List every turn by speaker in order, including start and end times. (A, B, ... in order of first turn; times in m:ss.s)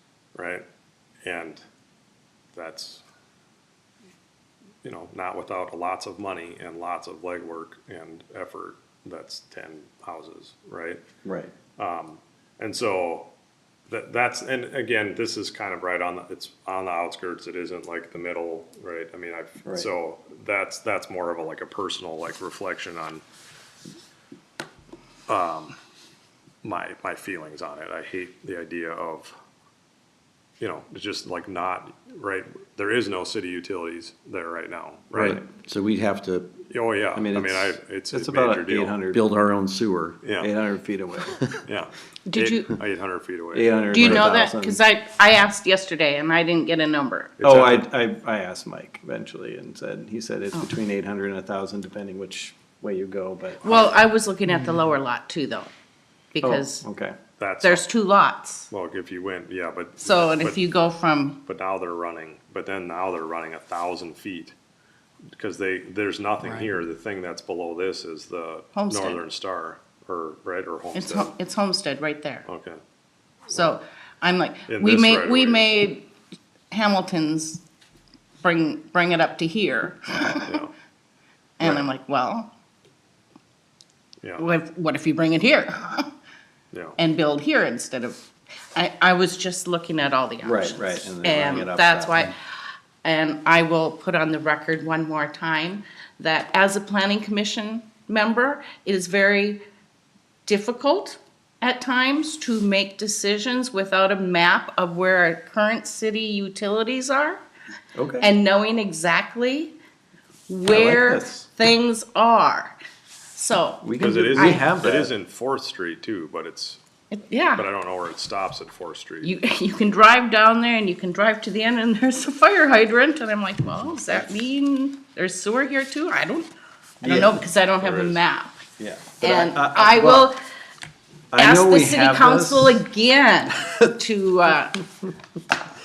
0:00.4-0:00.6 A
0:01.2-0:01.6 A
0:02.5-0:03.0 A
0:04.8-0:11.0 A
0:11.2-0:11.5 B
0:11.8-0:13.3 A
0:13.9-0:23.2 A
0:25.3-0:25.8 A
0:26.6-0:29.4 A
0:30.6-0:35.4 A
0:35.1-0:36.6 C
0:36.7-0:39.0 A
0:37.2-0:39.2 B
0:39.1-0:40.2 C
0:40.2-0:40.5 A
0:40.4-0:41.4 B
0:41.6-0:44.2 A
0:42.3-0:42.7 D
0:43.5-0:44.8 B
0:43.9-0:47.4 D
0:47.4-0:47.9 A
0:47.4-0:53.9 B
0:53.6-0:55.7 D
0:56.3-0:56.8 D
0:56.4-0:57.2 B
0:57.4-0:57.9 A
0:57.6-0:58.7 D
0:58.7-1:00.6 A
1:00.0-1:01.4 D
1:01.5-1:04.5 A
1:05.4-1:11.3 A
1:08.8-1:09.2 D
1:11.0-1:12.5 D
1:12.5-1:12.8 A
1:13.5-1:16.1 D
1:14.7-1:15.7 A
1:16.7-1:17.6 D
1:18.4-1:20.6 D
1:20.4-1:20.7 A
1:21.6-1:22.5 D
1:21.6-1:21.9 A
1:24.4-1:26.1 D
1:26.7-1:27.0 A
1:27.0-1:28.2 D
1:28.8-1:32.4 D
1:30.4-1:32.3 B
1:33.0-1:39.6 D
1:40.5-1:47.4 D
1:48.0-1:48.3 B
1:48.2-1:49.8 D
1:50.5-1:52.8 D
1:50.7-1:51.5 B
1:53.4-1:54.7 D
1:53.8-1:55.1 B
1:54.0-1:56.8 A
1:57.1-1:57.7 D
1:57.6-1:59.4 A
1:59.2-2:06.5 D
2:07.0-2:07.4 B
2:07.0-2:08.6 D
2:07.8-2:08.2 A
2:08.8-2:10.3 B
2:09.2-2:10.4 D
2:11.3-2:12.8 B
2:11.4-2:14.8 D